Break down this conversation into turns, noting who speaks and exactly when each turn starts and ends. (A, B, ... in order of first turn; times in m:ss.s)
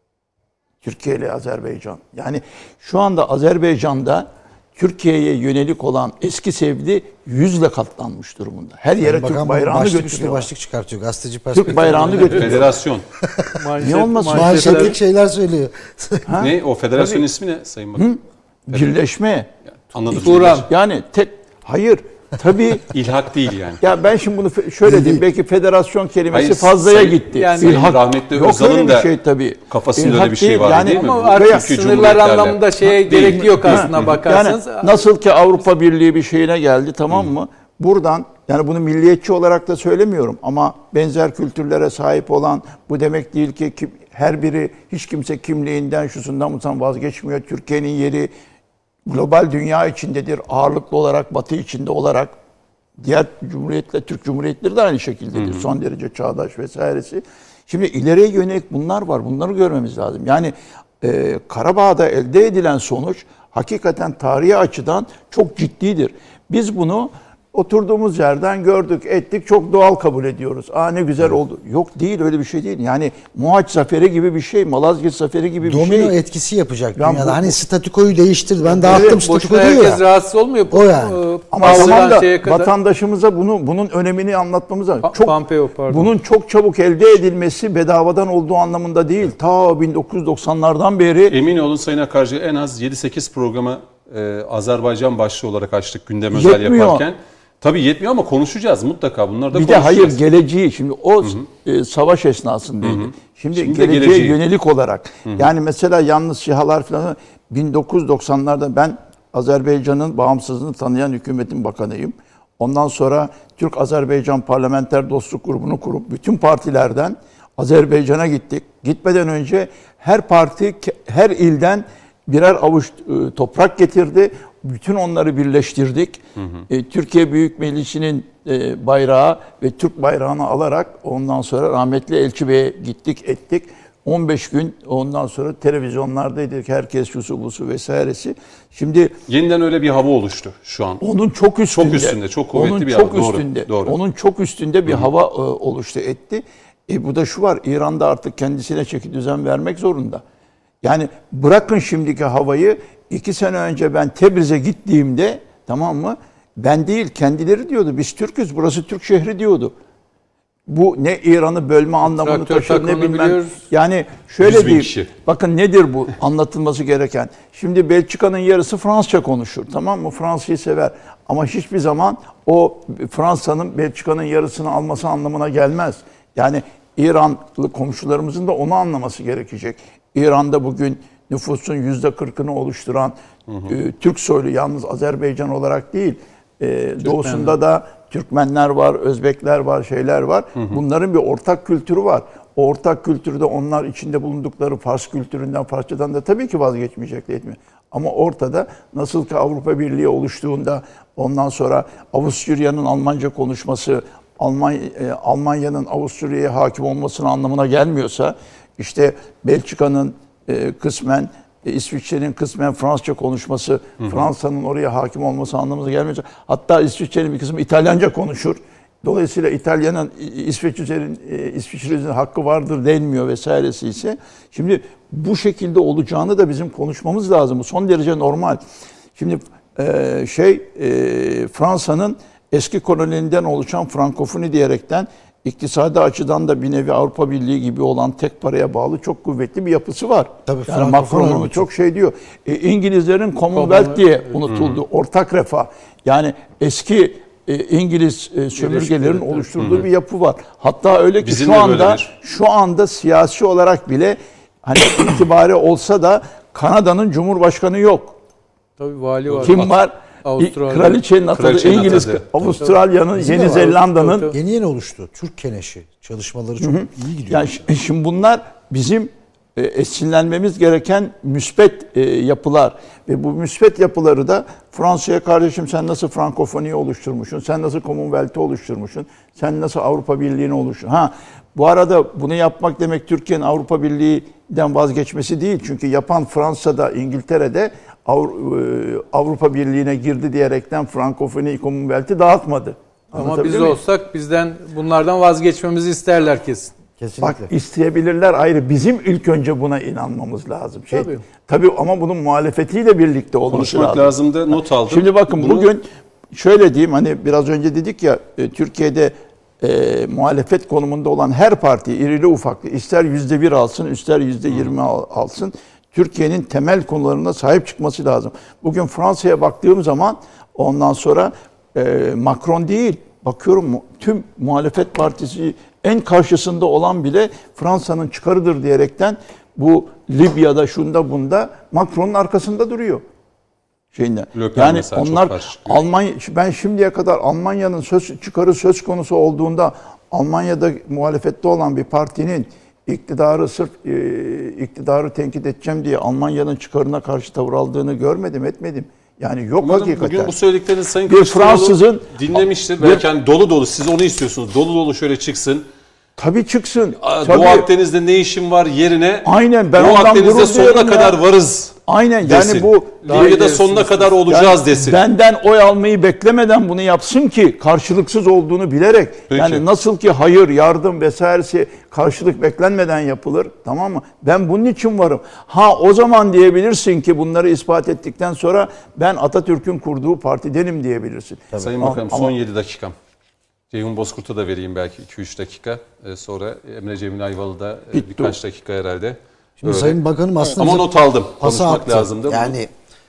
0:00.8-0:10.5 A
0:09.0-0:12.6 B
0:11.5-0:12.8 A
0:12.0-0:13.0 C
0:13.2-0:13.6 B
0:13.6-0:15.0 D
0:13.8-0:15.0 A
0:14.3-0:16.3 B
0:16.3-0:17.2 A
0:16.4-0:18.1 C
0:18.0-0:19.5 A
0:19.7-0:20.7 C
0:20.1-0:22.9 A
0:20.1-0:20.7 D
0:22.9-0:23.8 C
0:23.8-0:32.2 A
0:24.9-0:25.2 B
0:26.3-0:29.1 C
0:27.4-0:27.9 D
0:29.7-0:34.2 C
0:30.8-0:35.1 D
0:33.2-0:48.3 A
0:49.0-0:52.3 A
0:53.0-1:16.1 A
0:55.3-0:55.7 C
1:15.6-1:20.0 B
1:17.0-1:17.5 A
1:18.7-1:22.7 D
1:18.8-1:19.1 A
1:20.7-1:21.2 B
1:21.5-1:25.4 A
1:25.0-1:26.1 D
1:25.9-1:31.4 A
1:31.3-1:40.2 C
1:36.3-1:37.0 A
1:39.5-2:19.1 A
1:42.8-1:44.4 C
2:06.4-2:06.7 C
2:19.3-2:21.0 C
2:21.0-2:30.2 A
2:21.8-2:24.0 C
2:30.8-2:39.7 A
2:40.7-3:03.1 A
2:42.0-2:43.6 D
2:44.4-2:45.1 C
3:03.5-3:03.8 C
3:03.7-3:48.6 A
3:07.0-3:07.6 D
3:49.2-4:18.2 A
4:00.4-4:01.6 B
4:03.5-4:04.4 D
4:04.5-4:04.8 C
4:08.5-4:09.8 D
4:09.6-4:09.9 C
4:11.2-4:12.1 C
4:18.8-4:19.7 D
4:19.3-4:19.7 C
4:19.4-4:24.3 A
4:20.2-4:21.0 D
4:21.3-4:22.5 C
4:22.6-4:24.4 D
4:23.2-4:27.7 B
4:26.6-4:53.8 A
4:53.1-4:56.7 D
4:57.0-4:57.5 B
4:57.2-5:04.1 A
5:00.9-5:01.2 D
5:03.5-5:05.7 C
5:04.9-5:33.0 A
5:33.9-5:50.3 A
5:34.3-5:35.8 C
5:49.6-5:55.6 C
5:51.1-5:53.0 A
5:56.2-5:57.7 A
5:57.0-6:05.0 C
5:59.2-6:01.2 A
6:01.9-6:22.3 A
6:03.1-6:04.1 D
6:09.3-6:09.6 C
6:21.5-6:21.9 B
6:21.6-6:22.9 C
6:23.7-6:30.0 C
6:27.9-6:28.3 A
6:29.6-6:32.7 B
6:30.5-6:32.5 C